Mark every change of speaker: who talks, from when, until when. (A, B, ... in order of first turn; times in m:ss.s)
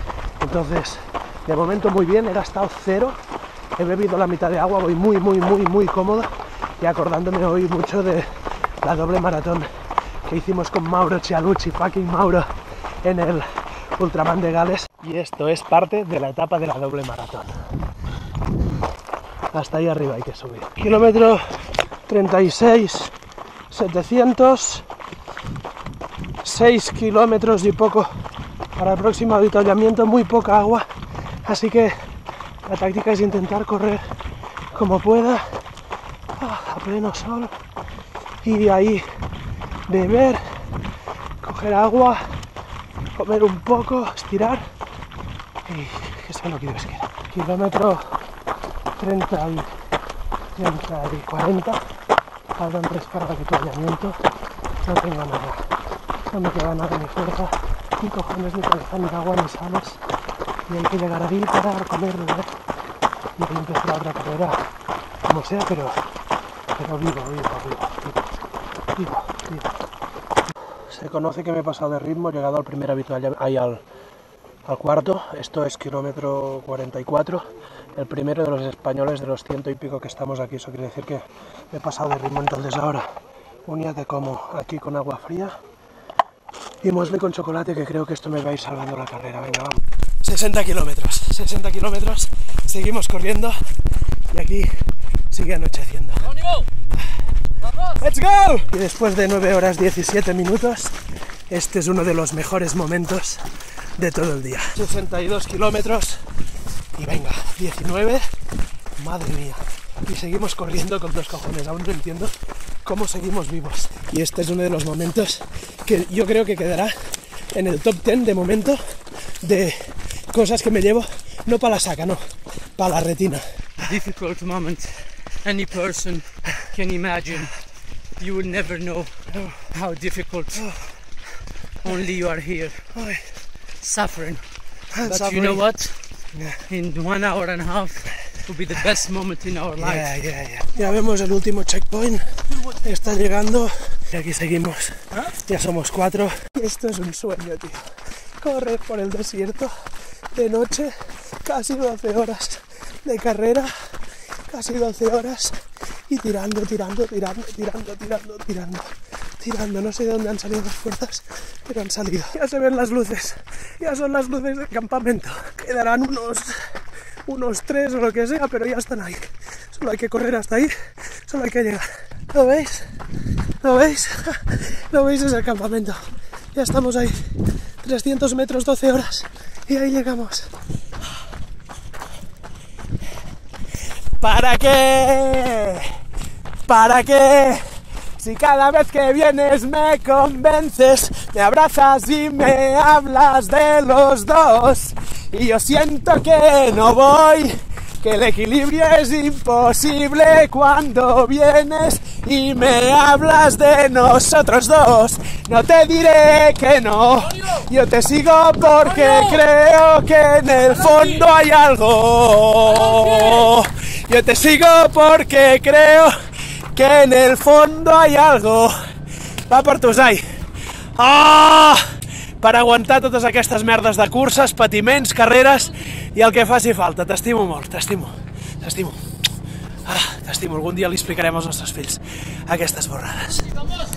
0:00.4-0:03.2 A
0:03.8-0:09.7 A
0:10.2-0:12.5 A
0:13.0-0:17.6 A
0:19.5-0:23.1 A
0:23.7-0:24.9 A
0:26.4-0:28.1 A
0:28.8-0:30.9 A
0:31.4-0:31.9 A
0:32.6-0:34.0 A
0:34.7-0:35.6 A
0:36.4-0:37.6 A
0:38.4-0:39.1 A
0:39.9-0:40.4 A
0:41.4-0:42.3 A
0:43.1-0:44.7 A
0:45.6-0:48.2 A
0:49.0-0:49.7 A
0:50.5-0:51.8 A
0:52.6-0:54.2 A
0:54.8-0:55.7 A
0:56.3-1:00.0 A
1:00.7-1:02.5 A
1:03.4-1:04.6 A
1:05.2-1:06.0 A
1:06.7-1:08.4 A
1:08.9-1:09.7 A
1:10.8-1:13.8 A
1:14.6-1:23.1 A
1:23.6-1:25.6 A
1:26.8-1:33.7 A
1:34.3-1:37.0 A
1:37.8-1:41.0 A
1:41.5-1:46.2 A
1:46.9-1:48.3 A
1:49.0-2:03.6 A
2:03.8-2:07.5 B
2:08.2-2:09.1 B
2:09.3-2:09.6 A
2:09.7-2:10.6 B
2:10.6-2:10.9 A
2:11.8-2:12.9 B
2:12.9-2:13.3 A
2:13.8-2:14.4 B
2:14.9-2:15.6 A
2:15.0-2:16.0 B
2:16.3-2:16.6 A
2:16.7-2:20.1 B
2:19.8-2:33.7 A
2:34.5-2:46.6 A
2:47.2-2:52.9 A
2:53.6-3:00.5 A
3:04.2-3:05.9 A
3:06.6-3:07.6 A
3:08.2-3:36.2 A
3:33.1-3:33.4 B
3:36.7-3:38.8 A
3:39.5-3:40.2 A
3:41.0-3:49.0 A
3:49.8-3:53.6 A